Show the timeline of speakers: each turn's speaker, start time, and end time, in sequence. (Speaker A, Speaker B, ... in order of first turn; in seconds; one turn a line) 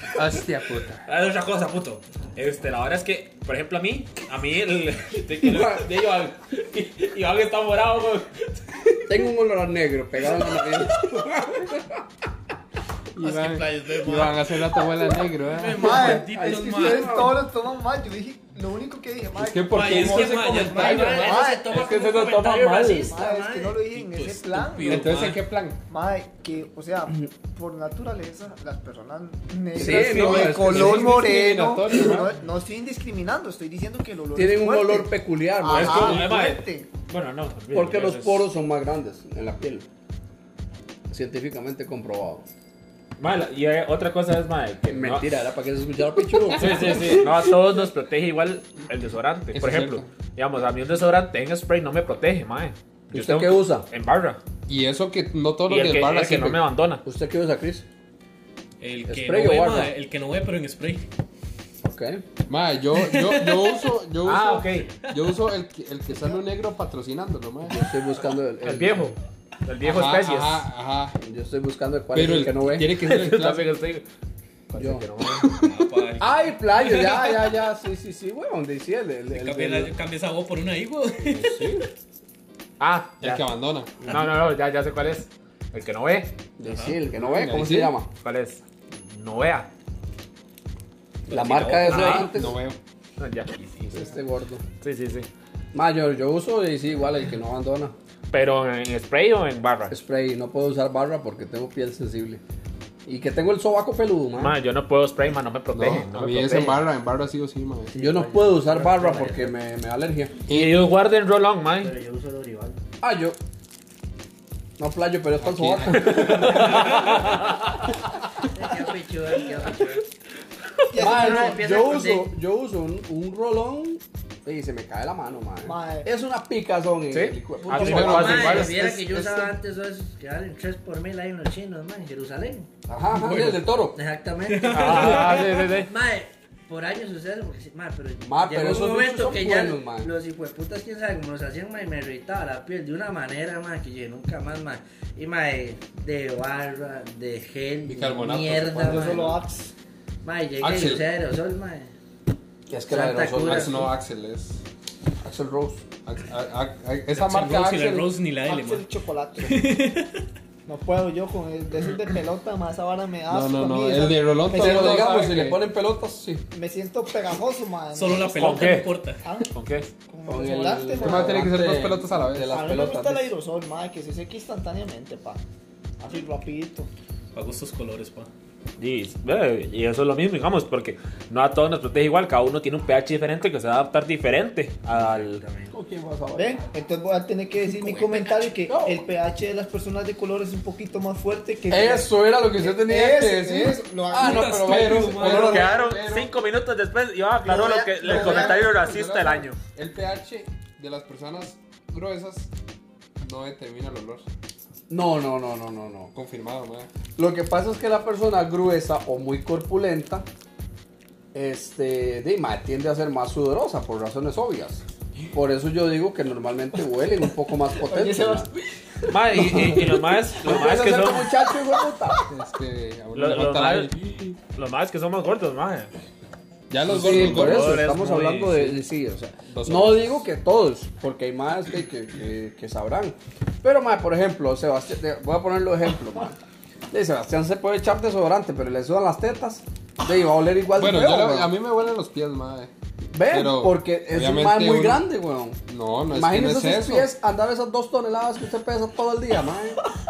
Speaker A: 0.1-1.0
Speaker B: 1.1-8.9
Speaker C: 5.4-5.8
Speaker C: 9.1-12.0
Speaker A: 13.2-16.1
Speaker D: 13.2-17.3
Speaker E: 15.8-21.7
Speaker C: 15.8-17.4
Speaker A: 19.4-21.3
Speaker D: 19.7-21.5
Speaker F: 20.2-23.8
Speaker C: 21.7-23.1
Speaker E: 23.0-25.2
Speaker D: 24.0-25.4
Speaker A: 24.9-25.8
Speaker E: 25.9-36.9
Speaker C: 29.8-31.3
Speaker A: 29.8-32.3
Speaker C: 34.4-36.3
Speaker B: 35.7-38.5
Speaker C: 37.7-39.9
Speaker C: 41.1-42.5
Speaker B: 43.2-45.3
Speaker C: 44.9-47.3
Speaker B: 46.5-54.4
Speaker A: 46.7-47.0
Speaker A: 49.5-50.1
Speaker C: 53.1-53.9
Speaker A: 54.7-56.6
Speaker B: 55.7-57.0
Speaker C: 57.0-57.9
Speaker D: 58.8-61.1
Speaker C: 59.1-59.9
Speaker C: 61.8-62.2
Speaker A: 62.5-67.8
Speaker D: 63.0-63.9
Speaker B: 64.2-64.9
Speaker D: 65.0-65.5
Speaker C: 67.7-69.1
Speaker B: 68.6-70.7
Speaker A: 69.8-71.2
Speaker C: 71.2-72.9
Speaker A: 72.1-73.7
Speaker B: 73.0-74.0
Speaker B: 74.7-75.6
Speaker C: 74.8-75.0
Speaker D: 75.5-77.5
Speaker C: 76.2-79.9
Speaker D: 79.3-81.9
Speaker A: 81.3-81.8
Speaker C: 81.5-81.8
Speaker B: 82.8-83.5
Speaker A: 83.2-84.0
Speaker B: 84.0-86.3
Speaker C: 86.6-88.1
Speaker D: 86.7-87.0
Speaker A: 87.2-88.0
Speaker B: 88.2-89.7
Speaker C: 91.3-92.6
Speaker D: 91.3-92.3
Speaker B: 91.8-92.3
Speaker A: 91.9-92.8
Speaker B: 93.2-94.1
Speaker C: 93.9-94.6
Speaker B: 94.8-95.3
Speaker C: 95.7-97.9
Speaker B: 98.3-99.9
Speaker C: 99.9-102.4
Speaker C: 103.1-104.6
Speaker B: 104.3-106.8
Speaker A: 105.7-107.9
Speaker F: 107.9-109.5
Speaker C: 108.0-110.3
Speaker A: 110.5-110.8
Speaker B: 110.5-111.9
Speaker F: 111.8-112.8
Speaker C: 113.0-113.4
Speaker C: 114.8-117.4
Speaker A: 115.4-116.2
Speaker B: 116.1-117.6
Speaker F: 118.5-120.0
Speaker E: 120.9-121.8
Speaker F: 121.0-122.3
Speaker C: 121.0-128.9
Speaker E: 125.7-126.1
Speaker B: 127.1-128.7
Speaker A: 127.8-129.4
Speaker F: 127.8-132.7
Speaker C: 132.9-134.0
Speaker D: 133.2-133.6
Speaker F: 133.9-149.3
Speaker D: 134.5-135.7
Speaker B: 134.7-135.9
Speaker C: 138.2-140.1
Speaker A: 147.9-149.4
Speaker E: 148.8-149.7
Speaker F: 150.2-151.9
Speaker A: 150.6-151.0
Speaker C: 152.7-153.9
Speaker F: 152.9-153.8
Speaker A: 153.4-154.6
Speaker C: 155.2-155.8
Speaker A: 156.0-158.1
Speaker D: 157.1-158.9
Speaker E: 158.4-159.7
Speaker D: 159.4-160.3
Speaker E: 160.7-165.1
Speaker A: 163.3-165.6
Speaker C: 164.5-166.4
Speaker E: 166.5-168.7
Speaker D: 167.9-169.2
Speaker B: 168.3-168.9
Speaker E: 169.2-169.5
Speaker B: 169.5-169.9
Speaker E: 170.1-171.5
Speaker C: 170.3-173.3
Speaker A: 171.0-172.7
Speaker E: 172.5-175.4
Speaker E: 176.0-176.9
Speaker D: 177.3-178.3
Speaker B: 178.8-185.4
Speaker F: 184.9-185.7
Speaker C: 185.7-186.6
Speaker E: 186.4-194.6
Speaker D: 187.8-188.4
Speaker C: 188.7-189.0
Speaker C: 191.7-195.7
Speaker D: 194.2-195.7
Speaker A: 194.5-196.3
Speaker B: 195.3-199.6
Speaker E: 197.4-198.7
Speaker A: 198.0-202.5
Speaker A: 203.2-204.3
Speaker C: 204.9-206.1
Speaker A: 206.1-206.9
Speaker C: 207.2-210.3
Speaker C: 211.3-214.8
Speaker C: 215.3-218.5
Speaker E: 217.9-218.4
Speaker B: 219.1-221.3
Speaker C: 219.3-222.2
Speaker A: 222.3-224.4
Speaker B: 223.1-223.9
Speaker B: 224.5-225.9
Speaker A: 226.7-228.0
Speaker C: 226.9-236.4
Speaker B: 226.9-228.7
Speaker A: 229.5-230.2
Speaker C: 236.9-241.5
Speaker A: 240.8-242.7
Speaker C: 243.0-245.6
Speaker A: 243.3-245.0
Speaker A: 245.7-247.1
Speaker C: 246.1-249.8